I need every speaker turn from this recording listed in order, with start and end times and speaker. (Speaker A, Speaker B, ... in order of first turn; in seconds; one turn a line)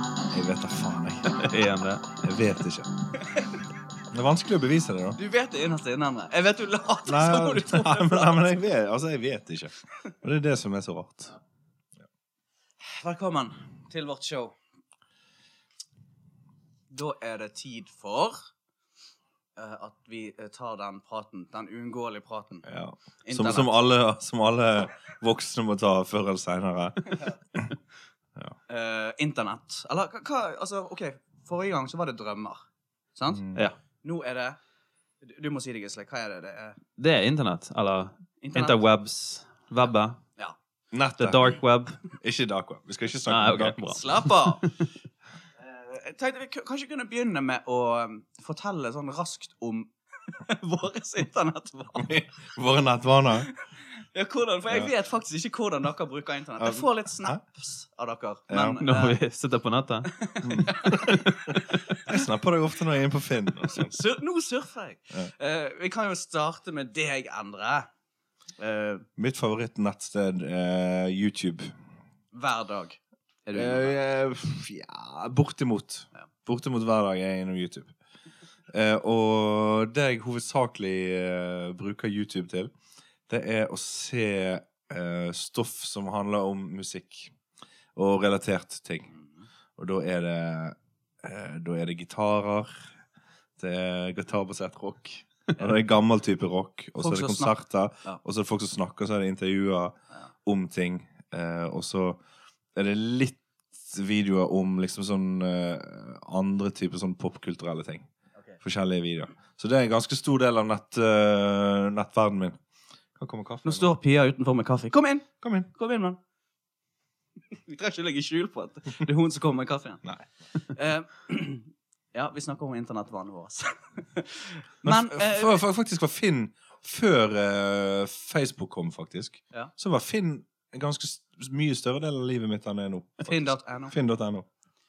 Speaker A: 0.3-1.5
Speaker B: 1.3-2.2
Speaker A: 2.2-2.9
Speaker A: 4.1-5.2
Speaker C: 5.2-8.4
Speaker A: 7.0-11.4
Speaker C: 12.8-14.5
Speaker C: 16.9-18.5
Speaker C: 19.6-22.6
Speaker A: 22.6-27.7
Speaker C: 23.2-23.7
Speaker C: 28.7-32.6
Speaker C: 33.1-33.5
Speaker A: 33.4-33.6
Speaker C: 34.0-34.6
Speaker C: 35.2-36.8
Speaker B: 37.0-40.2
Speaker C: 38.4-38.8
Speaker A: 40.9-41.6
Speaker B: 41.2-42.0
Speaker A: 42.2-43.8
Speaker B: 43.3-44.8
Speaker C: 43.9-44.6
Speaker C: 45.6-52.1
Speaker A: 52.0-53.5
Speaker C: 54.1-59.2
Speaker A: 56.6-57.4
Speaker A: 58.5-58.8
Speaker B: 58.8-60.1
Speaker C: 60.1-61.5
Speaker A: 60.4-61.5
Speaker B: 60.9-61.5
Speaker A: 62.0-64.0
Speaker C: 63.8-67.9
Speaker C: 68.6-69.0
Speaker A: 69.2-71.7
Speaker C: 72.3-74.0
Speaker A: 73.5-77.9
Speaker A: 78.7-82.7
Speaker A: 83.3-87.3
Speaker A: 88.0-89.1
Speaker C: 89.1-89.4
Speaker A: 89.8-92.9
Speaker A: 93.6-102.2
Speaker C: 97.0-98.2
Speaker A: 102.7-108.1
Speaker A: 108.6-112.6
Speaker A: 113.2-113.9
Speaker C: 113.6-116.2
Speaker A: 115.4-115.7
Speaker C: 117.5-120.0
Speaker C: 120.7-125.6
Speaker A: 124.8-134.4
Speaker C: 133.2-133.9